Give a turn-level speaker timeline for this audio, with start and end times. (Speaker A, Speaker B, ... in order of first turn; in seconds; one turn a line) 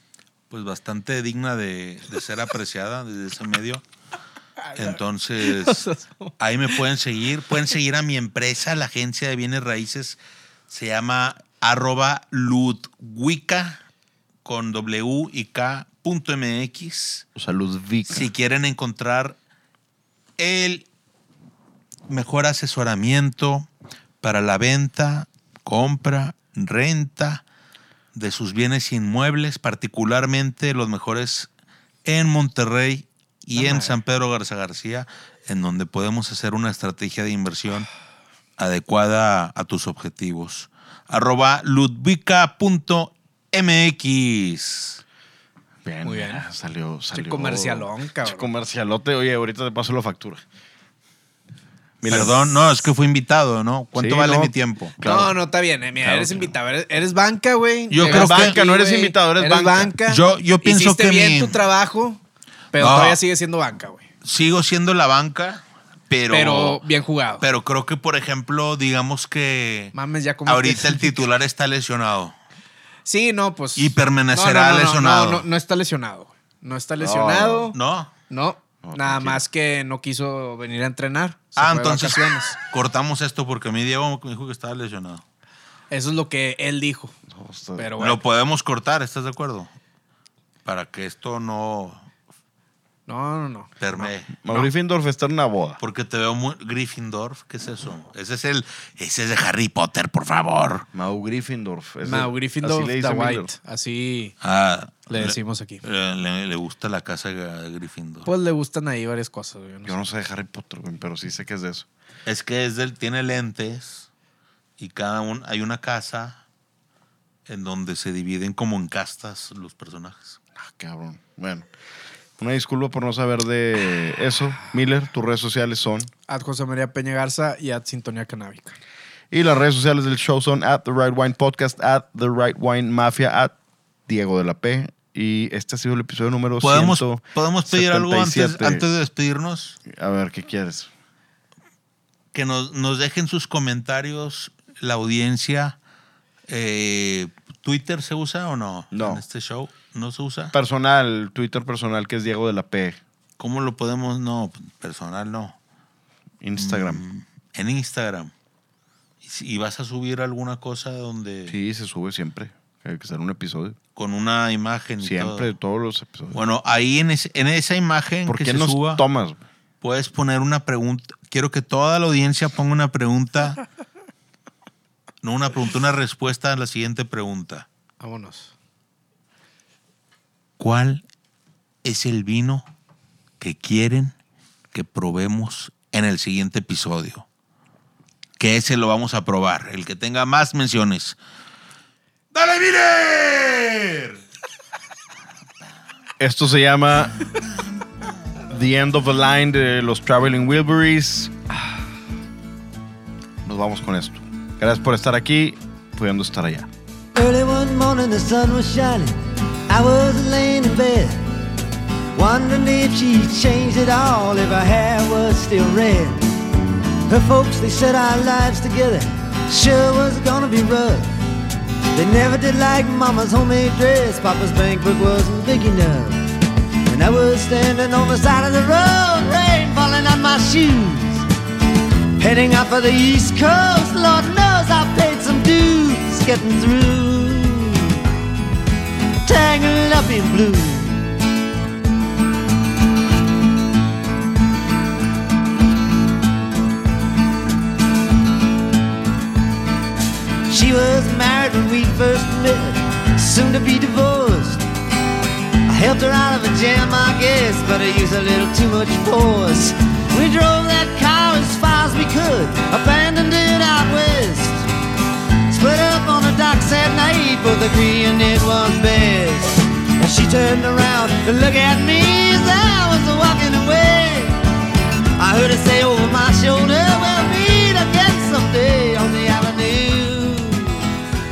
Speaker A: 0.5-3.8
Speaker B: 4.7-6.3
Speaker A: 4.7-5.9
Speaker A: 6.4-10.2
Speaker A: 10.7-13.8
Speaker A: 14.4-17.2
Speaker C: 17.3-18.3
Speaker A: 18.0-19.4
Speaker A: 20.4-20.9
Speaker A: 22.1-23.7
Speaker A: 24.2-27.4
Speaker A: 28.1-31.5
Speaker A: 32.0-37.9
Speaker B: 33.5-33.9
Speaker A: 38.6-45.0
Speaker C: 45.8-50.4
Speaker B: 46.0-46.5
Speaker B: 47.1-48.5
Speaker C: 52.0-52.5
Speaker A: 52.1-54.9
Speaker C: 54.0-55.4
Speaker B: 55.0-62.2
Speaker C: 56.0-56.5
Speaker A: 57.9-58.6
Speaker C: 58.0-59.9
Speaker A: 60.1-61.6
Speaker B: 62.7-64.1
Speaker A: 62.8-63.2
Speaker A: 64.2-66.8
Speaker B: 66.3-67.4
Speaker A: 67.4-69.9
Speaker B: 69.9-71.2
Speaker A: 70.5-72.3
Speaker B: 73.0-77.8
Speaker A: 73.8-75.5
Speaker C: 77.0-77.7
Speaker A: 77.7-78.1
Speaker B: 78.3-82.6
Speaker C: 78.8-79.4
Speaker A: 81.6-85.2
Speaker B: 85.9-87.2
Speaker C: 87.3-87.9
Speaker B: 87.8-88.2
Speaker A: 88.0-89.7
Speaker A: 90.6-92.1
Speaker B: 93.1-93.7
Speaker A: 93.8-94.3
Speaker C: 94.4-95.8
Speaker A: 95.8-100.9
Speaker C: 100.9-103.5
Speaker B: 102.0-104.3
Speaker A: 104.4-108.3
Speaker B: 105.1-105.8
Speaker B: 108.2-110.0
Speaker C: 109.8-111.9
Speaker A: 112.2-114.1
Speaker A: 114.8-116.4
Speaker A: 117.5-120.4
Speaker C: 120.6-121.7
Speaker C: 122.4-126.1
Speaker B: 126.3-128.8
Speaker C: 129.3-133.5
Speaker C: 134.1-139.0
Speaker A: 136.6-139.8
Speaker C: 139.8-140.9
Speaker A: 142.3-145.8
Speaker A: 146.5-150.5
Speaker C: 148.9-149.2
Speaker C: 150.5-153.0
Speaker A: 153.4-155.6
Speaker C: 156.4-157.0
Speaker A: 156.6-158.3
Speaker A: 159.2-161.6
Speaker C: 161.5-163.8
Speaker A: 163.9-165.5
Speaker C: 165.0-166.4
Speaker A: 166.3-169.0
Speaker C: 168.2-169.4
Speaker A: 169.8-173.6
Speaker A: 175.2-177.7
Speaker B: 178.0-178.5
Speaker A: 180.6-181.0
Speaker A: 181.8-182.7
Speaker A: 183.4-184.1
Speaker A: 184.7-187.2
Speaker A: 188.4-191.2
Speaker A: 192.3-194.2
Speaker C: 196.2-197.2
Speaker C: 198.5-201.3
Speaker C: 203.4-206.7
Speaker D: 207.1-211.3
Speaker D: 212.1-216.4
Speaker D: 217.1-221.2
Speaker D: 221.9-226.3
Speaker D: 226.8-231.2
Speaker D: 232.2-238.0
Speaker D: 239.2-241.1
Speaker D: 250.5-254.7
Speaker D: 255.7-264.6
Speaker D: 265.5-274.4
Speaker D: 275.2-280.9